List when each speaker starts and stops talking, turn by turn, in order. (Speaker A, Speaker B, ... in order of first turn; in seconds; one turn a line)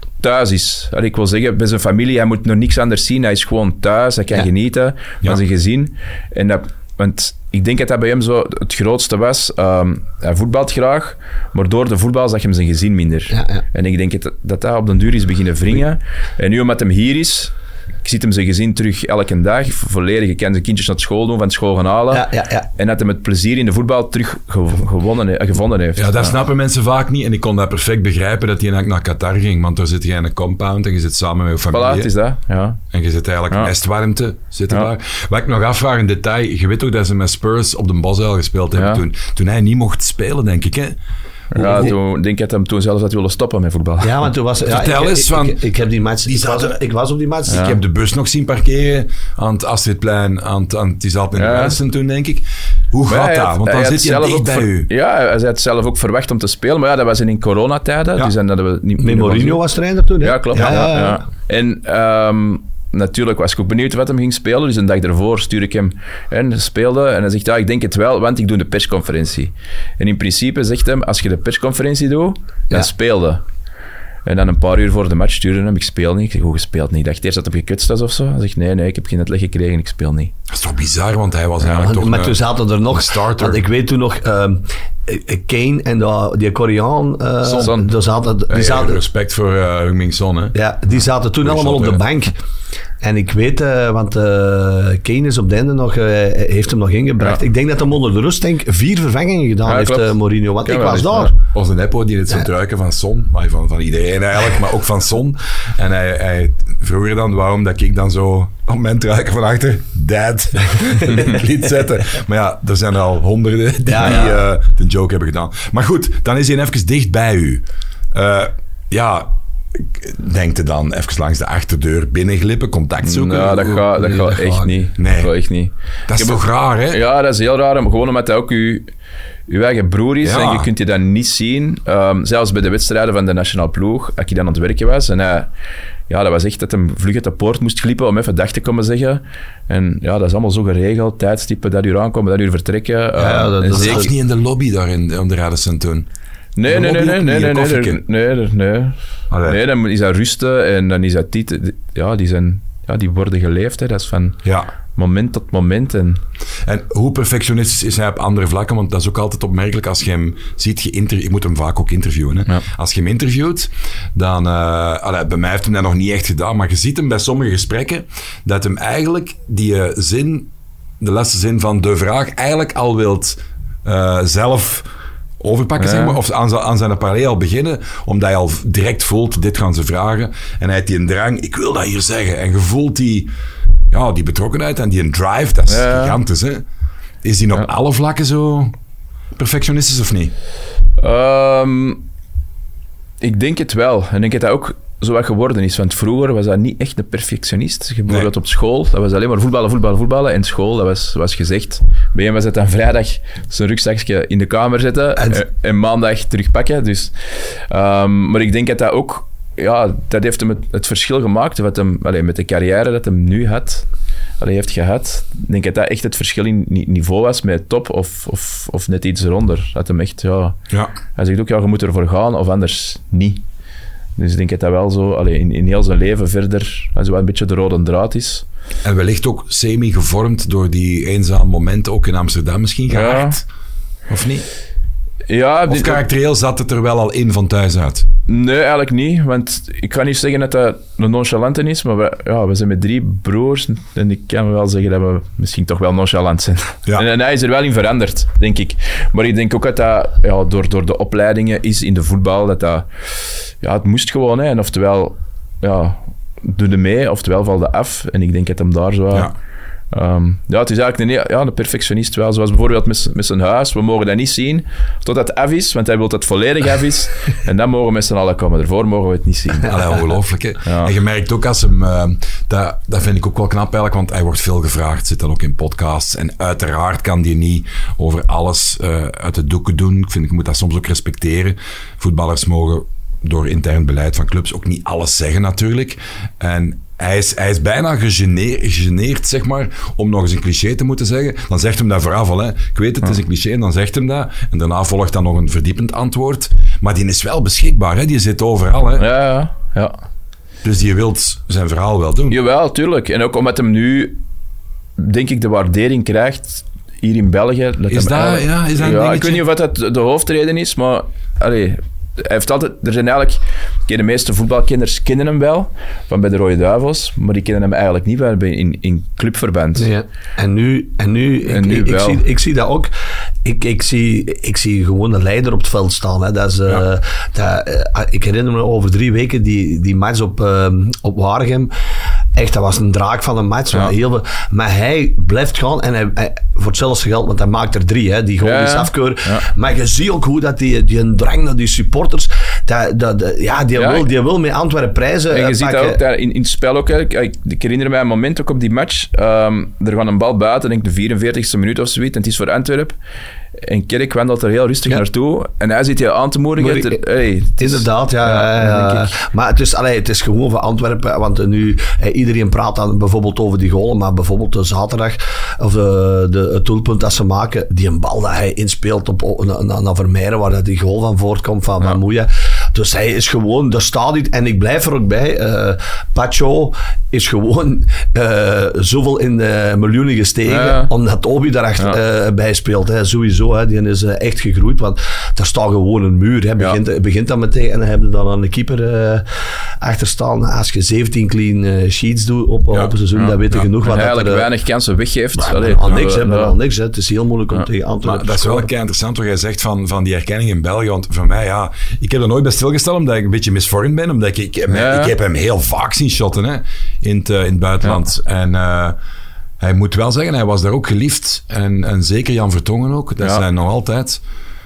Speaker A: 0.2-26.3
Speaker B: 13.3-13.6
Speaker B: 22.1-22.7
Speaker C: 26.0-32.1
Speaker A: 31.7-32.8
Speaker C: 32.9-41.0
Speaker A: 38.7-39.0
Speaker A: 41.5-44.1
Speaker C: 41.5-41.9
Speaker B: 41.7-41.9
Speaker B: 44.0-47.7
Speaker C: 44.7-45.6
Speaker C: 46.3-46.8
Speaker C: 47.5-54.9
Speaker A: 47.5-47.8
Speaker A: 51.4-51.8
Speaker A: 53.1-59.6
Speaker B: 59.0-61.2
Speaker A: 60.2-73.4
Speaker A: 74.3-80.3
Speaker C: 80.5-83.6
Speaker B: 81.6-89.0
Speaker A: 87.5-87.9
Speaker C: 88.5-90.5
Speaker B: 90.5-92.3
Speaker C: 91.4-92.0
Speaker B: 93.0-101.4
Speaker A: 99.7-100.1
Speaker A: 100.7-101.3
Speaker C: 101.5-123.9
Speaker B: 113.9-114.4
Speaker A: 123.0-128.9
Speaker B: 124.0-124.7
Speaker C: 125.0-125.3
Speaker C: 126.1-127.0
Speaker A: 129.5-135.5
Speaker C: 130.2-130.7
Speaker A: 136.1-144.1
Speaker B: 143.2-144.1
Speaker C: 143.7-146.1
Speaker A: 146.6-154.4
Speaker C: 146.7-148.0
Speaker C: 149.3-149.6
Speaker A: 154.9-156.2
Speaker C: 156.6-174.9
Speaker C: 175.4-183.3
Speaker A: 175.8-176.2
Speaker C: 183.9-186.6
Speaker A: 185.7-186.2
Speaker C: 187.2-188.7
Speaker C: 189.3-190.3
Speaker A: 191.0-192.0
Speaker A: 193.2-213.9
Speaker A: 214.4-220.6
Speaker A: 221.2-223.4
Speaker A: 224.2-228.4
Speaker C: 228.8-233.4
Speaker A: 232.9-233.4
Speaker C: 234.1-234.5
Speaker A: 235.3-236.0
Speaker C: 235.7-238.1
Speaker A: 238.3-252.9
Speaker A: 253.6-259.3
Speaker A: 259.9-270.0
Speaker C: 269.6-299.1
Speaker A: 270.6-270.9
Speaker A: 299.0-300.0
Speaker C: 300.6-302.4
Speaker A: 302.3-304.2
Speaker A: 305.0-319.9
Speaker C: 307.9-309.4
Speaker B: 319.8-322.9
Speaker A: 321.5-322.2
Speaker B: 323.4-331.7
Speaker B: 332.4-346.0
Speaker A: 338.4-339.5
Speaker A: 343.8-344.1
Speaker A: 345.3-352.9
Speaker A: 353.6-359.1
Speaker B: 356.6-357.0
Speaker B: 357.6-389.2
Speaker A: 380.5-380.9
Speaker B: 389.8-394.5
Speaker A: 393.2-396.5
Speaker B: 395.4-398.7
Speaker C: 398.0-409.0
Speaker A: 404.7-405.1
Speaker C: 409.6-414.2